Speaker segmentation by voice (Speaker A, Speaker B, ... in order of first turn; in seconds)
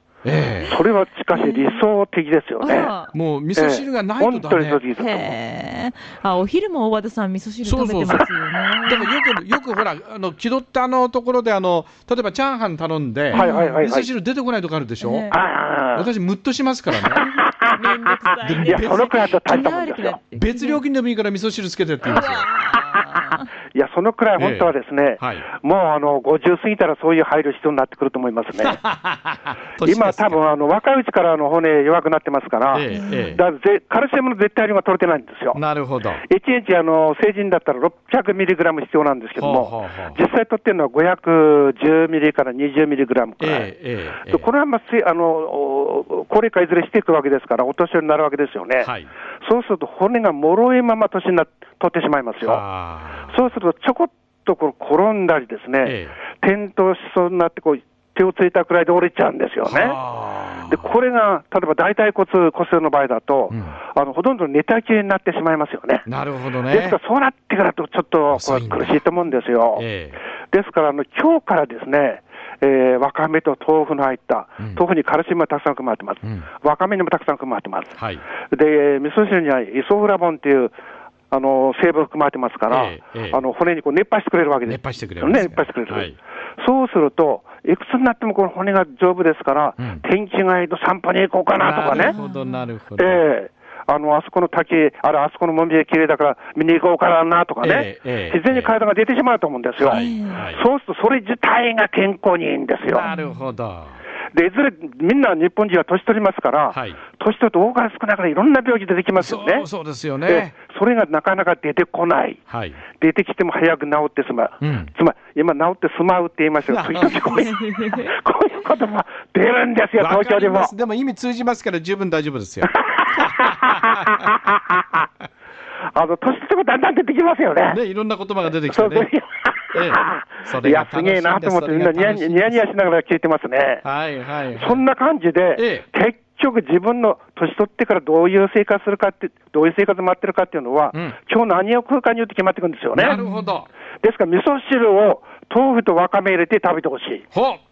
Speaker A: 0.2-0.8, 3.1-4.8, 7.6-8.3, 8.8-15.3, 15.9-17.2, 18.4-19.1, 20.4-22.5, 24.4-25.4, 28.6-30.4, 32.7-33.4, 35.5-36.2, 39.4-40.2, 43.4-44.5, 48.8-49.1, 52.4-53.4, 55.8-56.1, 59.6-60.9, 63.5-63.8, 66.0-67.0, 68.3-69.0, 69.8-70.2, 78.0-78.2, 82.7-83.4, 84.7-86.1, 91.6-93.2, 97.6-98.7, 99.8-100.6, 102.8-104.0, 106.7-107.0, 109.2-110.5, 112.5-112.8, 114.6-114.9, 116.7-117.5, 120.0-124.3, 127.7-129.1, 129.7-132.6, 133.8-134.8, 135.6-135.8, 142.9-143.7, 147.3-147.6
Speaker B: 0.6-1.8, 2.6-3.1, 5.0-9.1, 13.3-13.8, 15.0-15.3, 17.0-20.8, 22.0-23.4, 32.8-33.4, 91.9-92.6, 99.8-100.4, 103.0-103.4, 117.5-118.1, 143.1-143.5
Speaker C: 0.7-2.9, 3.5-5.3, 13.3-14.1, 15.3-16.1, 17.4-17.8, 18.6-20.2, 23.7-28.8, 29.8-35.6, 36.2-43.7, 44.2-52.6, 53.3-60.0, 60.6-66.0, 66.7-69.8, 70.5-78.0, 78.5-80.7, 81.3-92.2, 93.0-100.0, 100.5-103.1, 104.3-109.7, 110.2-112.4, 113.0-120.7, 122.6-125.0, 125.9-127.8, 128.6-133.8, 134.5-143.2, 144.0-147.3